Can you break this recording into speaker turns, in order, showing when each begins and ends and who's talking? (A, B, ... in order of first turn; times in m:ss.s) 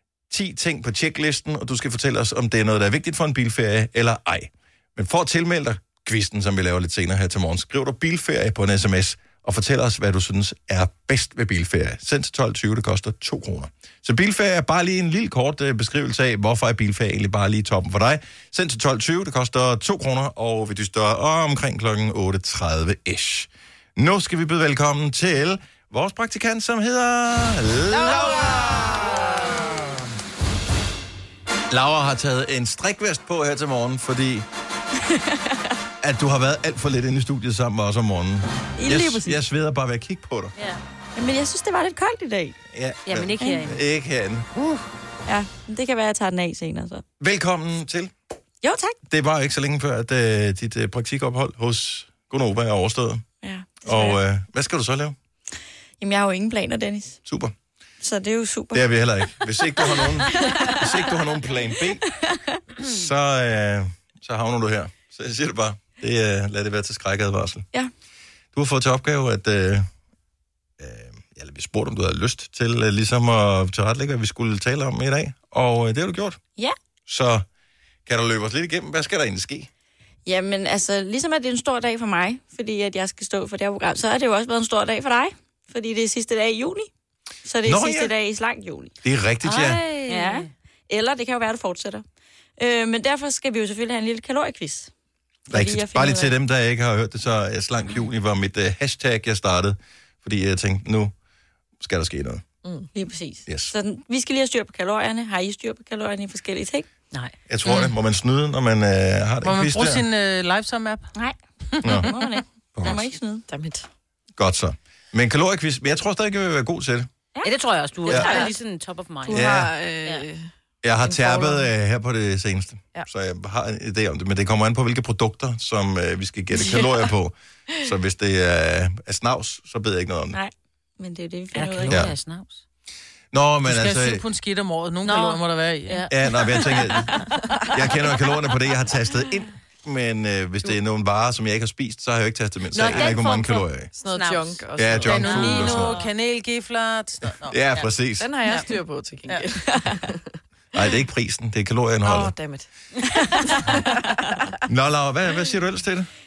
0:00.3-0:29.7 A
0:31.7-0:34.5 A
0:35.0-0:35.7 B
0:36.0-0:40.5 A
0:38.8-0:39.4 B
0:40.6-0:40.8 C
0:41.2-0:42.6 B
0:42.7-0:44.8 A
0:43.1-0:43.8 C
0:43.4-0:43.6 B
0:45.3-0:47.0 B
0:47.2-0:48.1 A
0:48.6-0:49.0 B
0:49.1-0:53.2 A
0:53.4-0:54.2 B
0:53.8-0:55.2 A
0:56.0-0:57.2 B
0:57.3-0:57.5 A
0:58.0-0:58.9 B
0:58.7-1:02.0 A
0:59.8-1:00.8 B
1:02.2-1:02.6 B
1:02.8-1:07.7 A
1:08.5-1:09.9 A
1:10.8-1:16.4 A
1:17.1-1:17.5 A
1:18.1-1:19.7 A
1:20.3-1:26.9 B
1:27.4-1:29.0 B
1:27.6-1:28.1 A
1:29.0-1:29.8 A
1:29.4-1:30.5 C
1:30.1-1:32.0 B
1:32.6-1:34.9 B
1:35.5-1:36.3 B
1:35.5-1:41.1 A
1:41.8-1:42.4 A
1:42.9-1:46.9 B
1:43.5-1:43.7 A
1:47.5-1:50.0 A
1:49.4-1:51.1 D
1:51.2-1:53.5 B
1:51.8-1:52.1 A
1:52.7-1:53.1 A
1:53.5-1:53.9 E
1:54.4-1:57.1 A
1:57.4-1:59.5 C
1:58.1-1:58.5 B
1:58.1-1:58.4 A
1:59.3-2:00.5 E
1:59.3-1:59.7 A
2:00.8-2:10.4 A
2:01.0-2:01.7 E
2:06.6-2:07.0 E
2:10.3-2:12.0 B
2:11.6-2:12.6 C
2:11.9-2:12.2 A
2:13.3-2:14.2 A
2:13.7-2:16.1 D
2:15.0-2:17.1 C
2:16.1-2:23.9 A
2:22.7-2:26.1 C
2:23.9-2:25.4 E
2:24.8-2:26.0 A
2:25.0-2:27.6 D
2:27.5-2:28.3 A
2:28.2-2:30.4 E
2:30.7-2:32.3 A
2:32.0-2:32.7 E
2:33.2-2:33.4 B
2:33.3-2:34.5 E
2:34.7-2:36.1 A